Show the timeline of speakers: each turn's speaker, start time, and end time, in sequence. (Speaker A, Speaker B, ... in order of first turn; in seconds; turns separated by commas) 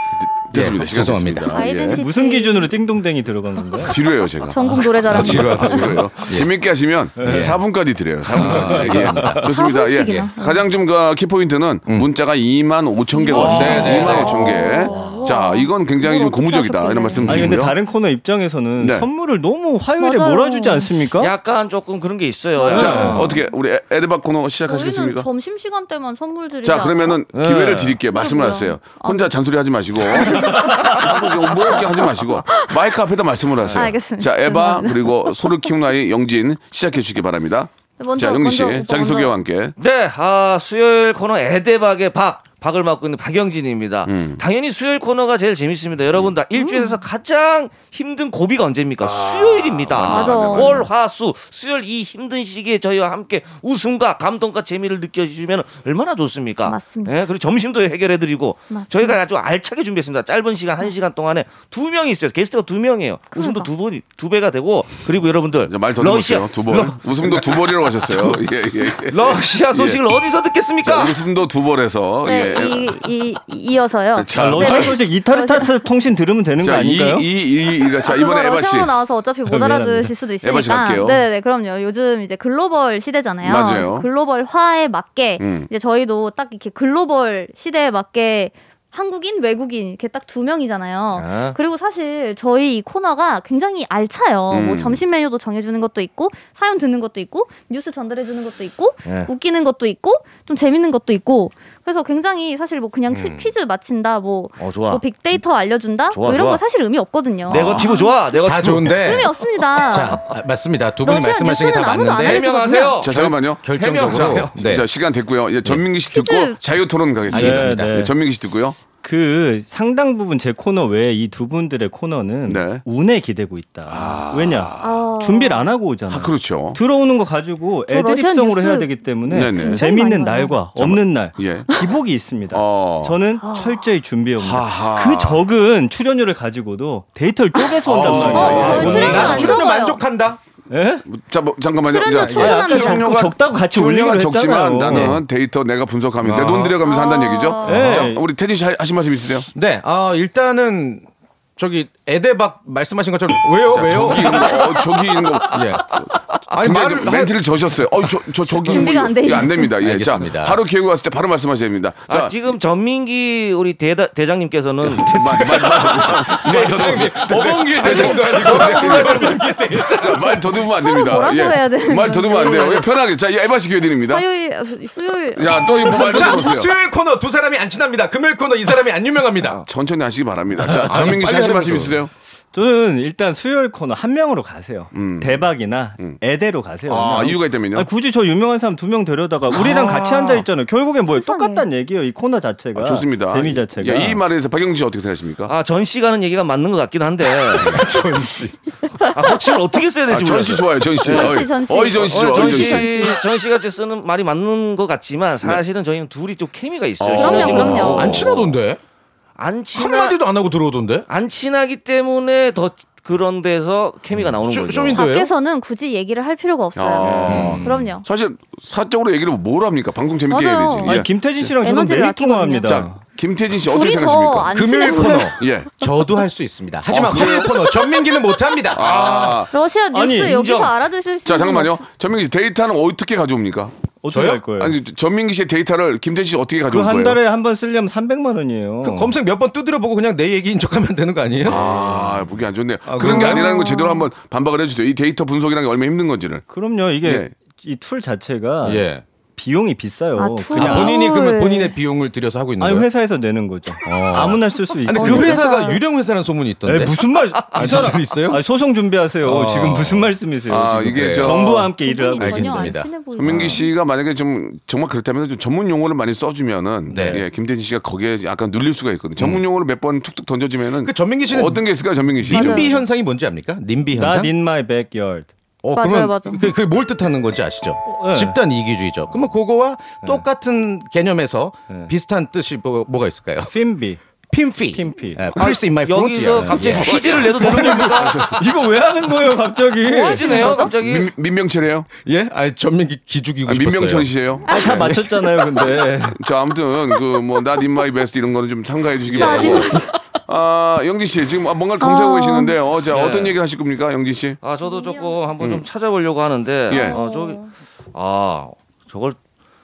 Speaker A: 0.2-2.0, Speaker B: 0.5-1.7, Speaker C: 1.5-2.7, Speaker D: 1.9-4.0, Speaker A: 3.8-17.8, Speaker C: 4.5-5.9, Speaker D: 4.6-5.8, Speaker B: 5.1-6.5, Speaker B: 7.2-7.6, Speaker D: 7.2-7.5, Speaker B: 8.2-9.4, Speaker D: 8.4-9.4, Speaker C: 9.3-10.7, Speaker C: 13.1-17.6, Speaker B: 13.3-14.6, Speaker D: 13.6-14.0, Speaker D: 17.2-21.3, Speaker A: 18.8-19.1, Speaker C: 20.0-20.9, Speaker E: 21.2-23.3, Speaker C: 22.6-23.5, Speaker A: 22.7-25.3, Speaker C: 24.7-27.2, Speaker A: 26.6-39.7, Speaker E: 27.3-28.0, Speaker C: 28.1-29.3, Speaker C: 30.1-32.8, Speaker E: 33.6-33.9, Speaker C: 33.7-35.7, Speaker C: 38.0-39.4, Speaker E: 39.8-67.5, Speaker A: 44.1-44.4, Speaker C: 46.6-47.0, Speaker A: 49.9-50.9, Speaker C: 50.1-50.9, Speaker C: 56.6-57.2, Speaker C: 58.7-59.2, Speaker C: 63.3-63.7, Speaker A: 65.7-70.0, Speaker E: 68.1-68.4, Speaker E: 69.0-71.2, Speaker A: 70.8-73.0, Speaker C: 72.2-75.8, Speaker A: 74.1-75.0, Speaker D: 74.3-77.3, Speaker A: 76.6-79.0, Speaker C: 77.9-108.1, Speaker D: 79.5-80.2, Speaker A: 80.4-81.2, Speaker A: 83.4-84.1, Speaker A: 85.4-85.7, Speaker E: 91.2-91.6, Speaker A: 94.5-95.0, Speaker E: 99.0-99.3, Speaker B: 103.1-103.5, Speaker E: 104.6-105.0, Speaker E: 106.1-106.6, Speaker E: 107.5-109.3, Speaker B: 107.5-109.3, Speaker C: 108.9-110.2, Speaker B: 109.8-112.5, Speaker C: 111.0-113.0, Speaker E: 112.2-114.6, Speaker A: 113.0-118.8, Speaker B: 113.0-114.9, Speaker C: 116.1-116.6, Speaker B: 117.3-118.0, Speaker D: 117.3-118.1, Speaker D: 119.0-139.6, Speaker A: 122.5-122.8, Speaker A: 123.9-125.0, Speaker C: 124.8-125.7, Speaker A: 126.1-126.8, Speaker C: 127.9-130.6, Speaker A: 129.3-129.8, Speaker A: 130.8-131.7, Speaker A: 132.5-133.2, Speaker C: 133.4-133.8, Speaker A: 134.4-135.4, Speaker B: 137.9-140.4, Speaker A: 137.9-139.5, Speaker C: 138.1-140.0, Speaker D: 140.7-141.0, Speaker A: 141.1-149.5, Speaker C: 141.8-143.2, Speaker D: 142.2-145.2, Speaker B: 144.9-145.2, Speaker B: 146.2-146.8, Speaker C: 146.8-148.0, Speaker D: 147.6-148.2, Speaker B: 149.5-154.7, Speaker A: 153.7-162.4, Speaker B: 155.5-159.1, Speaker C: 158.6-159.7, Speaker B: 159.6-160.6, Speaker E: 162.1-166.1, Speaker B: 164.8-170.6, Speaker A: 164.9-174.3, Speaker E: 167.8-169.4, Speaker C: 170.8-172.9, Speaker C: 174.0-176.6, Speaker A: 175.3-176.7, Speaker B: 175.7-179.6, Speaker A: 179.7-182.1, Speaker B: 180.6-182.0, Speaker D: 182.5-194.2, Speaker A: 184.9-186.2, Speaker A: 186.9-187.9, Speaker B: 189.5-190.4, Speaker C: 191.1-191.7, Speaker A: 192.8-195.5, Speaker E: 195.5-197.8, Speaker B: 197.6-198.5, Speaker E: 199.1-208.5, Speaker A: 200.1-202.9, Speaker C: 201.0-203.2, Speaker A: 207.0-208.3, Speaker C: 207.2-208.2, Speaker B: 207.9-208.8, Speaker E: 209.4-210.2, Speaker B: 209.8-211.1, Speaker E: 211.1-215.0, Speaker B: 214.2-215.3, Speaker C: 214.9-218.1, Speaker A: 216.8-221.1, Speaker E: 217.0-217.6, Speaker B: 217.3-217.9, Speaker C: 220.3-221.0, Speaker D: 220.8-223.0, Speaker C: 221.6-222.9, Speaker A: 222.6-224.6, Speaker C: 223.6-225.4, Speaker B: 224.5-229.4, Speaker A: 225.4-225.7, Speaker A: 226.9-227.7, Speaker A: 228.7-229.5, Speaker C: 229.5-231.8, Speaker D: 229.9-230.7, Speaker A: 231.2-233.7, Speaker D: 234.0-234.8, Speaker B: 234.1-234.4, Speaker A: 234.6-237.2, Speaker D: 236.7-239.2, Speaker B: 238.8-242.3, Speaker A: 241.4-246.5, Speaker B: 242.8-243.6, Speaker C: 243.0-244.1, Speaker D: 246.5-248.8, Speaker A: 247.0-247.3, Speaker B: 248.6-249.0, Speaker D: 249.4-251.0, Speaker C: 250.2-251.8, Speaker B: 250.5-252.9, Speaker D: 252.6-255.6, Speaker B: 253.8-257.0, Speaker C: 254.9-255.8, Speaker D: 256.7-262.8, Speaker E: 257.4-257.9, Speaker B: 257.5-258.4, Speaker B: 259.2-261.7, Speaker A: 260.5-261.7, Speaker C: 261.7-263.7, Speaker B: 262.2-263.6, Speaker A: 263.1-272.7, Speaker B: 266.9-267.2, Speaker D: 267.0-267.2, Speaker B: 269.2-269.4, Speaker B: 270.8-271.7, Speaker B: 272.2-274.3, Speaker C: 272.3-272.8, Speaker D: 273.9-275.3, Speaker B: 275.6-283.5, Speaker C: 275.8-276.5, Speaker D: 277.9-278.4, Speaker D: 283.5-284.0, Speaker B: 284.3-288.2, Speaker D: 284.7-285.3, Speaker E: 285.4-288.2, Speaker A: 286.6-288.4, Speaker D: 287.4-290.6, Speaker E: 289.9-291.1, Speaker C: 289.9-290.7, Speaker A: 290.7-291.9, Speaker B: 292.0-295.1, Speaker A: 293.5-294.9, Speaker D: 294.5-296.2, Speaker A: 295.6-304.4, Speaker B: 299.1-299.8, Speaker C: 299.1-299.9, Speaker C: 301.8-302.6, Speaker E: 302.9-303.4, Speaker E: 304.4-307.4, Speaker C: 304.6-305.2, Speaker C: 306.7-307.5, Speaker A: 306.7-307.0, Speaker E: 307.9-309.2